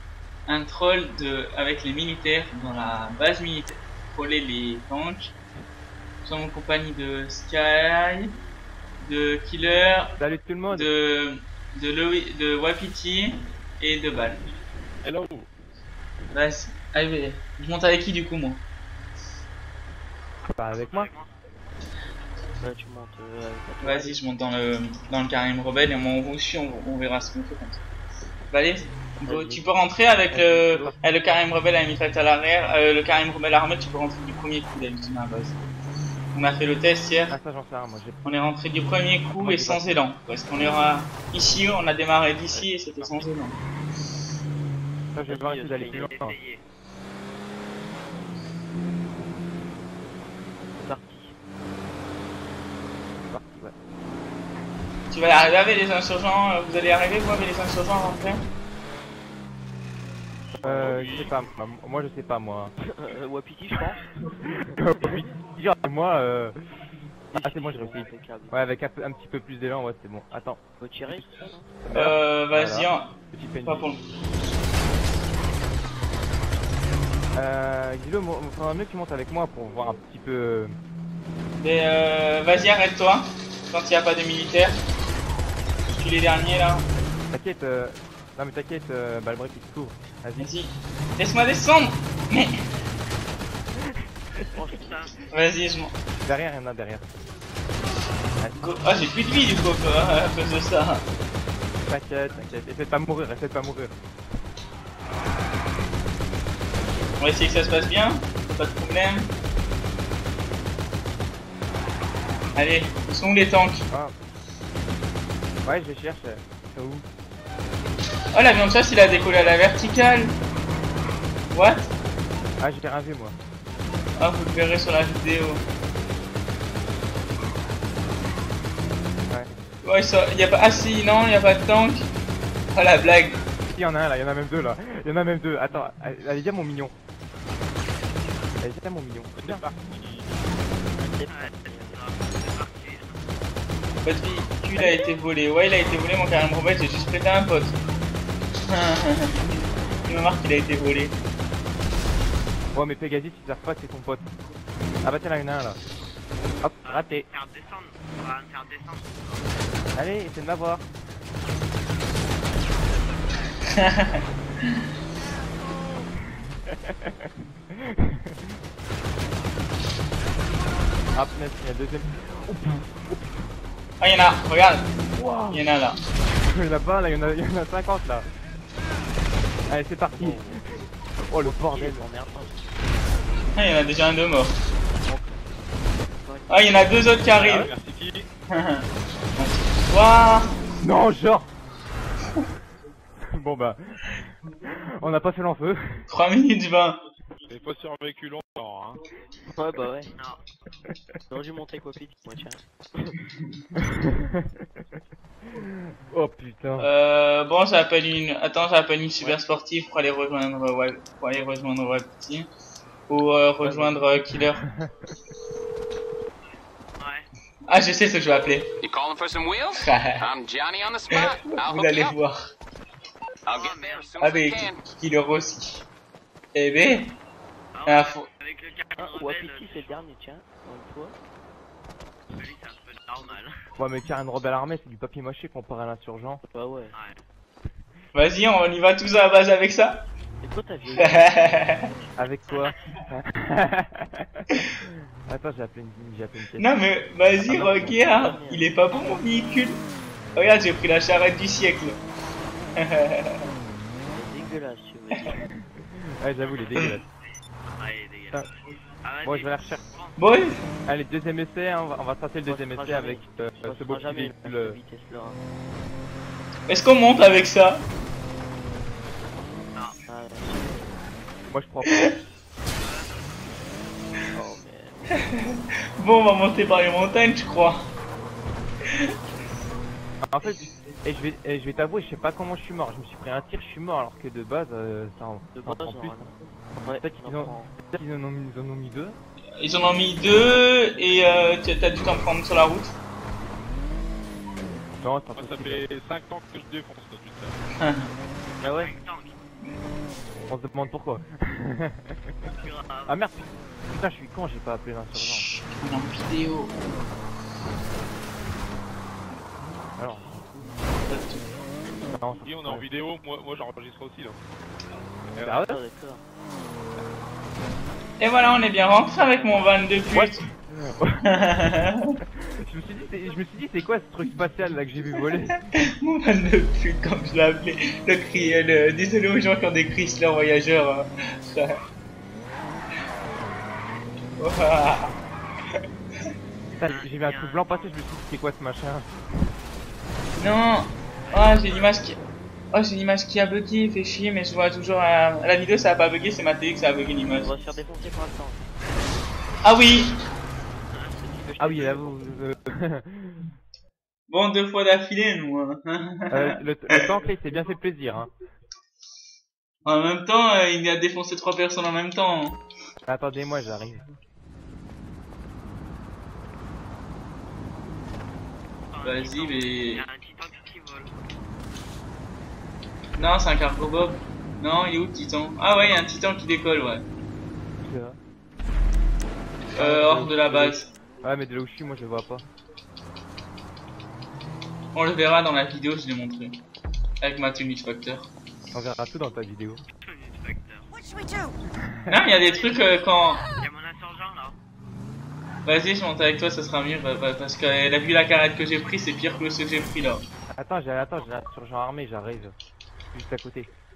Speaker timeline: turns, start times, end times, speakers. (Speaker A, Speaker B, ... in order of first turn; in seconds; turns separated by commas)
Speaker A: 0.5-5.3, Speaker A: 6.2-8.3, Speaker A: 9.0-10.2, Speaker B: 10.2-10.9, Speaker A: 10.7-14.4, Speaker C: 15.0-15.5, Speaker A: 16.3-18.6, Speaker B: 20.5-21.1, Speaker D: 20.7-21.3, Speaker E: 22.6-24.2, Speaker A: 23.8-27.8, Speaker A: 28.5-35.6, Speaker E: 29.2-29.7, Speaker B: 30.3-31.0, Speaker A: 36.3-37.4, Speaker B: 37.3-38.2, Speaker A: 38.2-43.6, Speaker B: 39.4-40.0, Speaker C: 43.0-43.3, Speaker B: 45.1-46.4, Speaker E: 45.3-46.1, Speaker D: 45.9-46.6, Speaker E: 50.8-51.3, Speaker B: 53.3-53.7, Speaker A: 55.1-58.4, Speaker C: 60.6-61.4, Speaker E: 60.6-61.0, Speaker B: 60.6-62.8, Speaker E: 63.0-64.0, Speaker B: 64.5-66.5, Speaker E: 67.3-68.6, Speaker B: 67.3-73.9, Speaker E: 70.8-71.8, Speaker A: 71.9-73.1, Speaker A: 73.7-74.0, Speaker B: 77.3-80.8, Speaker A: 81.6-84.8, Speaker A: 85.9-86.9, Speaker B: 87.3-90.5, Speaker A: 90.4-92.5, Speaker E: 94.5-95.1, Speaker D: 94.8-95.2, Speaker A: 95.3-95.9, Speaker B: 96.2-97.1, Speaker B: 98.4-98.8, Speaker A: 98.6-101.0, Speaker B: 101.8-104.0, Speaker A: 107.2-109.3, Speaker A: 112.6-113.8, Speaker B: 115.6-117.1, Speaker A: 118.3-120.3, Speaker A: 121.5-121.9, Speaker B: 122.6-123.4, Speaker A: 124.2-125.6, Speaker A: 129.8-132.1, Speaker A: 132.7-133.4, Speaker B: 133.7-136.9, Speaker B: 138.6-139.7, Speaker C: 139.3-140.4, Speaker E: 140.9-142.0, Speaker D: 141.3-143.2, Speaker A: 144.0-147.8, Speaker A: 148.7-149.4, Speaker A: 150.1-151.2, Speaker B: 152.7-154.3, Speaker B: 155.0-155.8, Speaker B: 156.6-157.3, Speaker D: 156.8-159.5, Speaker B: 159.9-160.9, Speaker A: 163.8-164.2, Speaker B: 166.7-167.1, Speaker B: 167.7-168.3, Speaker B: 171.2-173.3, Speaker A: 174.0-174.9, Speaker B: 175.1-175.7, Speaker A: 175.5-176.0, Speaker B: 176.3-178.3, Speaker B: 179.7-182.1, Speaker C: 180.2-180.6, Speaker E: 181.4-182.6, Speaker A: 183.6-184.6, Speaker E: 185.0-185.4, Speaker E: 186.2-187.8, Speaker A: 186.5-187.7, Speaker C: 187.3-188.3, Speaker A: 188.5-188.9, Speaker A: 189.4-190.5, Speaker B: 190.8-191.5, Speaker B: 193.3-194.1, Speaker B: 194.6-196.0, Speaker A: 196.1-197.0, Speaker C: 197.5-199.0, Speaker E: 199.5-200.1, Speaker E: 201.3-203.2, Speaker B: 203.8-204.7, Speaker B: 205.6-206.9, Speaker A: 206.8-212.5, Speaker A: 213.1-214.6, Speaker B: 213.6-215.1, Speaker D: 217.0-217.3, Speaker A: 217.7-218.7, Speaker F: 218.8-222.2, Speaker A: 219.7-220.3, Speaker A: 221.1-222.4, Speaker F: 223.5-224.8, Speaker D: 223.5-224.2, Speaker A: 224.2-225.8, Speaker A: 226.5-227.2, Speaker D: 227.7-230.0, Speaker A: 227.9-228.3, Speaker E: 229.0-231.2, Speaker D: 232.3-233.6, Speaker B: 233.8-236.4, Speaker E: 236.4-236.9, Speaker D: 236.9-237.2, Speaker A: 238.1-240.0, Speaker E: 240.4-241.8, Speaker A: 241.0-241.8, Speaker B: 242.2-246.7, Speaker A: 246.6-249.8, Speaker B: 247.4-248.0, Speaker E: 248.0-248.7, Speaker A: 250.4-252.0, Speaker A: 252.8-253.4, Speaker E: 254.0-255.4, Speaker B: 255.6-257.0, Speaker D: 257.6-258.5, Speaker D: 259.0-260.2, Speaker B: 259.2-259.9, Speaker A: 260.2-260.5, Speaker B: 260.9-264.8, Speaker E: 262.5-265.4, Speaker A: 266.7-267.9, Speaker E: 270.1-270.9, Speaker B: 271.5-272.2, Speaker D: 272.8-273.5, Speaker E: 274.3-275.1, Speaker A: 275.3-277.9, Speaker B: 280.3-286.2, Speaker E: 285.6-287.8, Speaker B: 287.0-289.2, Speaker A: 289.6-292.9, Speaker B: 295.0-295.9, Speaker C: 295.4-297.6, Speaker A: 297.8-298.1, Speaker E: 298.6-298.9, Speaker D: 298.6-299.4, Speaker B: 300.5-302.4, Speaker D: 302.5-303.2, Speaker B: 303.1-305.5, Speaker A: 305.8-306.8, Speaker B: 310.0-310.4, Speaker A: 311.1-311.5, Speaker B: 312.1-312.9, Speaker C: 312.4-314.4, Speaker C: 315.2-315.6, Speaker B: 315.4-315.8, Speaker E: 315.6-316.2, Speaker A: 318.2-320.4, Speaker B: 320.1-321.3, Speaker A: 321.3-322.2, Speaker B: 322.6-325.7, Speaker A: 325.8-331.8, Speaker A: 334.4-335.1, Speaker B: 336.8-339.1, Speaker D: 336.9-338.0, Speaker A: 340.4-342.2, Speaker D: 341.2-342.0, Speaker A: 342.7-347.5, Speaker E: 347.4-348.7, Speaker A: 349.6-350.1, Speaker D: 350.9-351.9, Speaker E: 351.4-352.3, Speaker B: 351.6-353.5, Speaker A: 354.3-356.4, Speaker B: 356.3-358.3, Speaker A: 359.9-362.6, Speaker B: 363.1-364.0, Speaker D: 368.9-371.2, Speaker A: 369.0-370.0, Speaker A: 373.2-377.0, Speaker B: 377.8-378.2, Speaker A: 379.7-380.9, Speaker B: 379.8-382.4, Speaker A: 384.9-386.6, Speaker A: 387.2-388.3, Speaker B: 388.7-389.8, Speaker D: 390.0-390.9, Speaker B: 391.8-392.1, Speaker A: 392.1-393.4, Speaker D: 392.3-394.6, Speaker A: 395.6-400.2, Speaker B: 400.5-402.6, Speaker B: 403.1-403.7